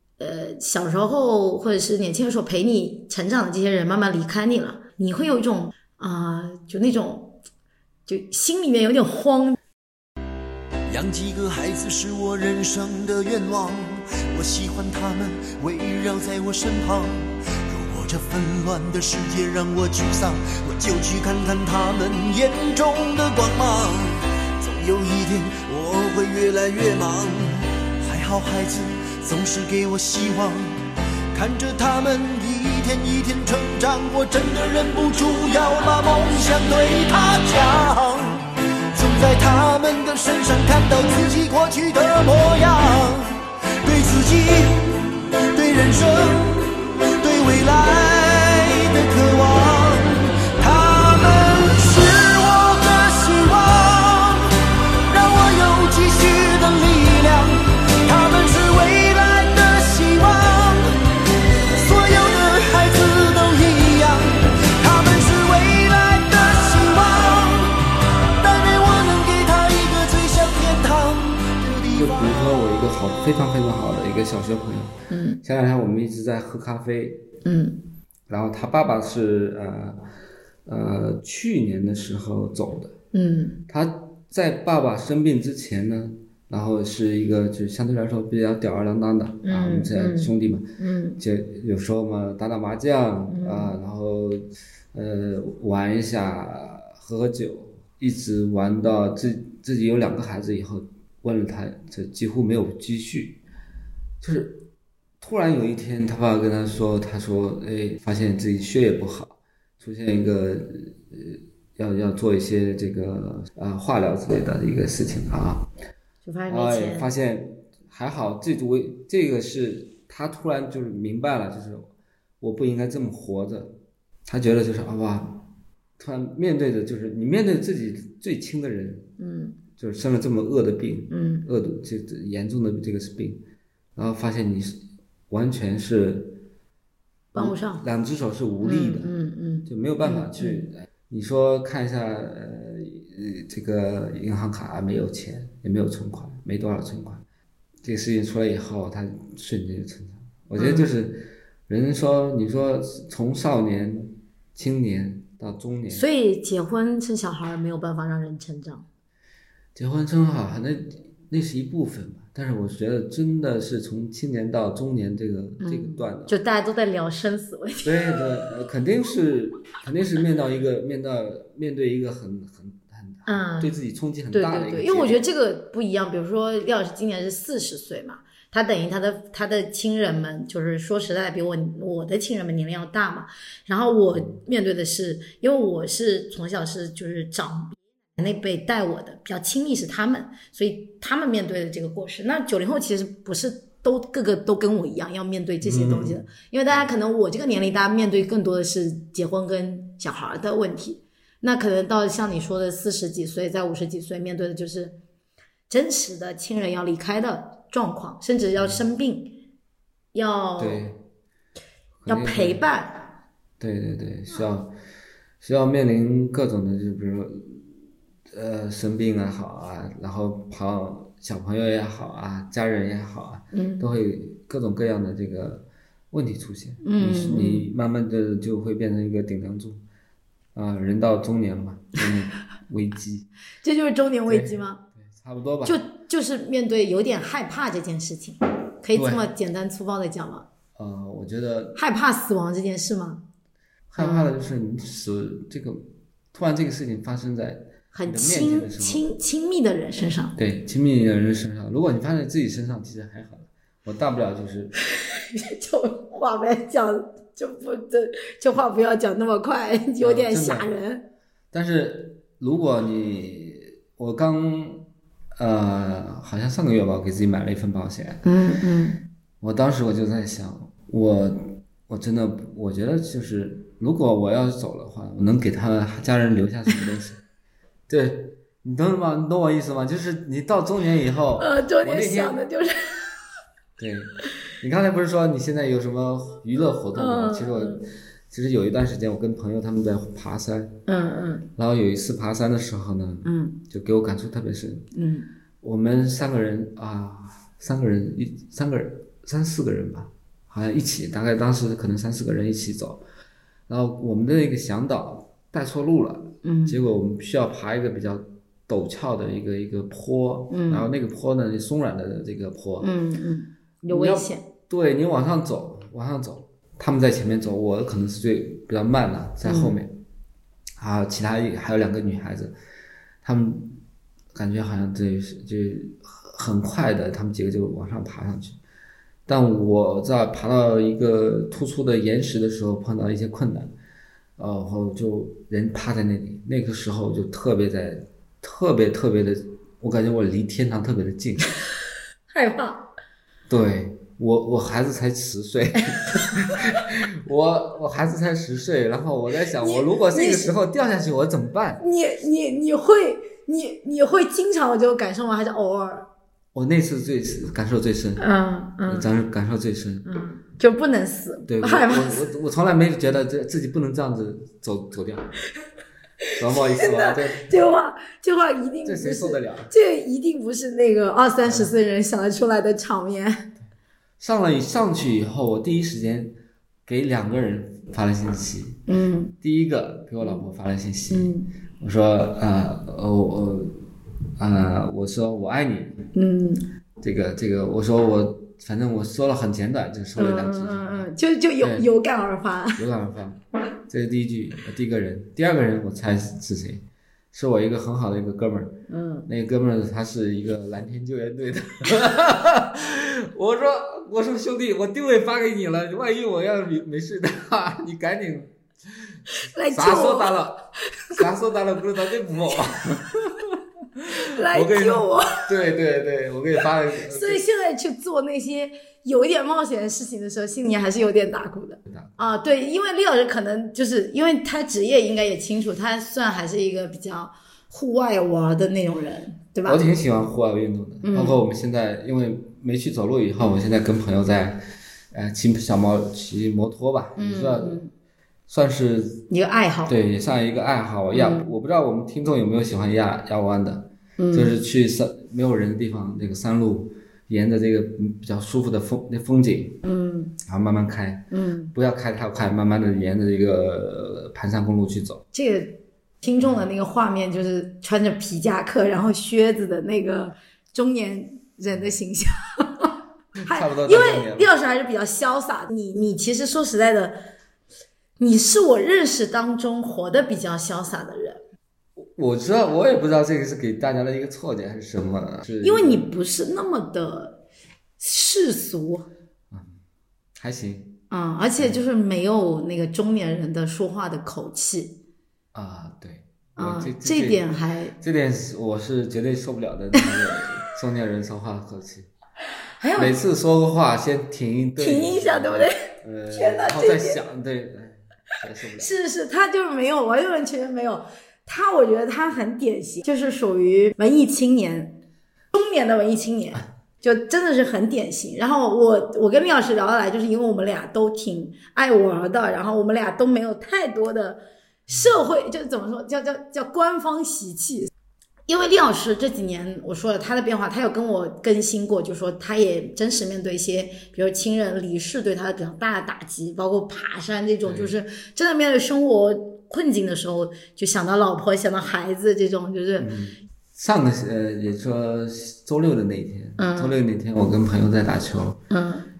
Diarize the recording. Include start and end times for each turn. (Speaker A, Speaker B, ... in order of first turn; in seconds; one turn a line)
Speaker A: 0.2-7.4
Speaker A: 8.1-9.6
Speaker B: 10.9-30.8
Speaker B: 31.3-61.0
Speaker B: 61.7-72.6
Speaker C: 71.9-77.2
Speaker A: 75.1-75.4
Speaker A: 77.4-77.8
Speaker C: 78.3-80.0
Speaker C: 80.7-82.9
Speaker A: 83.1-83.6
Speaker C: 83.7-103.4
Speaker A: 89.4-91.2
Speaker A: 93.3-93.7
Speaker C: 104.2-104.6
Speaker C: 105.2-115.7
Speaker A: 116.2-117.1
Speaker C: 116.5-121.9
Speaker C: 122.4-123.7
Speaker C: 124.2-125.4
Speaker C: 126.0-129.1
Speaker A: 129.2-129.6
Speaker C: 129.8-133.4
Speaker A: 131.1-131.4
Speaker C: 133.9-136.4
Speaker A: 137.3-137.8
Speaker C: 137.3-139.1
Speaker A: 138.6-140.7
Speaker C: 139.7-147.2
Speaker C: 147.8-156.1
Speaker A: 150.6-150.9
Speaker A: 155.9-158.8
Speaker C: 159.7-166.3
Speaker A: 165.6-168.2
Speaker C: 167.8-175.2
Speaker A: 173.2-173.7
Speaker A: 174.3-205.0
Speaker C: 195.6-196.2
Speaker A: 205.7-209.4
Speaker A: 210.1-210.8
Speaker C: 210.6-211.0
Speaker C: 212.0-212.7
Speaker A: 212.1-213.1
Speaker C: 213.6-214.7
Speaker C: 215.4-217.7
Speaker C: 218.3-229.8
Speaker A: 223.5-223.9
Speaker A: 226.8-227.7
Speaker C: 230.5-233.3
Speaker A: 233.6-234.8
Speaker C: 234.3-235.8
Speaker A: 235.6-240.5
Speaker C: 238.9-239.3
Speaker C: 240.8-241.8
Speaker A: 241.8-243.2
Speaker C: 243.9-249.0
Speaker A: 244.0-244.3
Speaker A: 247.9-250.4
Speaker C: 250.4-254.7
Speaker A: 254.9-261.1
Speaker C: 260.0-260.7
Speaker C: 261.5-268.2
Speaker A: 268.2-269.0
Speaker C: 269.4-277.2
Speaker C: 277.9-282.4
Speaker A: 281.4-283.1
Speaker C: 283.8-290.8
Speaker A: 286.9-287.8
Speaker A: 290.9-291.4
Speaker C: 291.6-294.9
Speaker A: 293.2-293.6
Speaker A: 294.9-295.3
Speaker C: 295.6-303.0
Speaker C: 303.7-312.9
Speaker A: 306.4-306.8
Speaker A: 310.5-310.9
Speaker A: 312.8-314.5
Speaker C: 313.9-319.9
Speaker A: 319.4-319.7
Speaker C: 320.8-322.5
Speaker C: 323.2-323.8
Speaker C: 324.3-328.6
Speaker C: 329.3-333.7
Speaker C: 334.4-341.5
Speaker A: 342.3-342.9
Speaker C: 343.5-351.8
Speaker A: 346.1-346.5
Speaker A: 349.6-350.5
Speaker A: 351.8-356.1
Speaker C: 356.5-358.2
Speaker A: 358.2-359.1
Speaker C: 358.9-360.1
Speaker A: 360.0-362.2
Speaker C: 361.5-365.4
Speaker C: 366.4-367.4
Speaker A: 366.6-373.5
Speaker C: 368.9-369.7
Speaker C: 371.4-371.7
Speaker C: 374.2-376.3
Speaker C: 376.9-378.8
Speaker A: 378.9-379.3
Speaker C: 379.4-383.8
Speaker A: 381.1-381.5
Speaker C: 384.4-386.1
Speaker A: 386.1-386.7
Speaker C: 387.0-391.1
Speaker A: 390.2-392.8
Speaker C: 391.6-391.9
Speaker C: 392.8-408.5
Speaker A: 398.9-399.3
Speaker A: 409.3-410.4
Speaker C: 409.7-417.4
Speaker A: 410.9-411.2
Speaker A: 414.1-415.5
Speaker A: 417.1-429.8
Speaker C: 421.9-422.3
Speaker C: 429.6-437.8
Speaker A: 431.0-431.4
Speaker A: 437.1-437.9
Speaker C: 438.5-439.2
Speaker A: 439.3-439.9
Speaker C: 439.9-449.8
Speaker A: 441.1-441.5
Speaker A: 444.2-444.5
Speaker A: 449.8-450.3
Speaker C: 450.4-455.2
Speaker A: 451.3-451.7
Speaker A: 455.3-462.9
Speaker C: 463.4-464.5
Speaker A: 463.4-467.2
Speaker A: 468.2-471.4
Speaker C: 472.0-476.1
Speaker A: 475.6-477.4
Speaker A: 478.0-479.1
Speaker C: 479.5-479.8
Speaker C: 480.4-481.0
Speaker A: 481.1-485.0
Speaker C: 485.5-487.5
Speaker A: 486.6-487.9
Speaker C: 488.0-492.1
Speaker A: 492.8-493.1
Speaker C: 492.9-498.9
Speaker A: 494.8-497.2
Speaker A: 498.8-505.0
Speaker A: 505.5-517.9
Speaker A: 518.5-533.1
Speaker C: 527.6-527.9
Speaker C: 533.0-538.6
Speaker A: 536.6-537.0
Speaker A: 538.7-539.1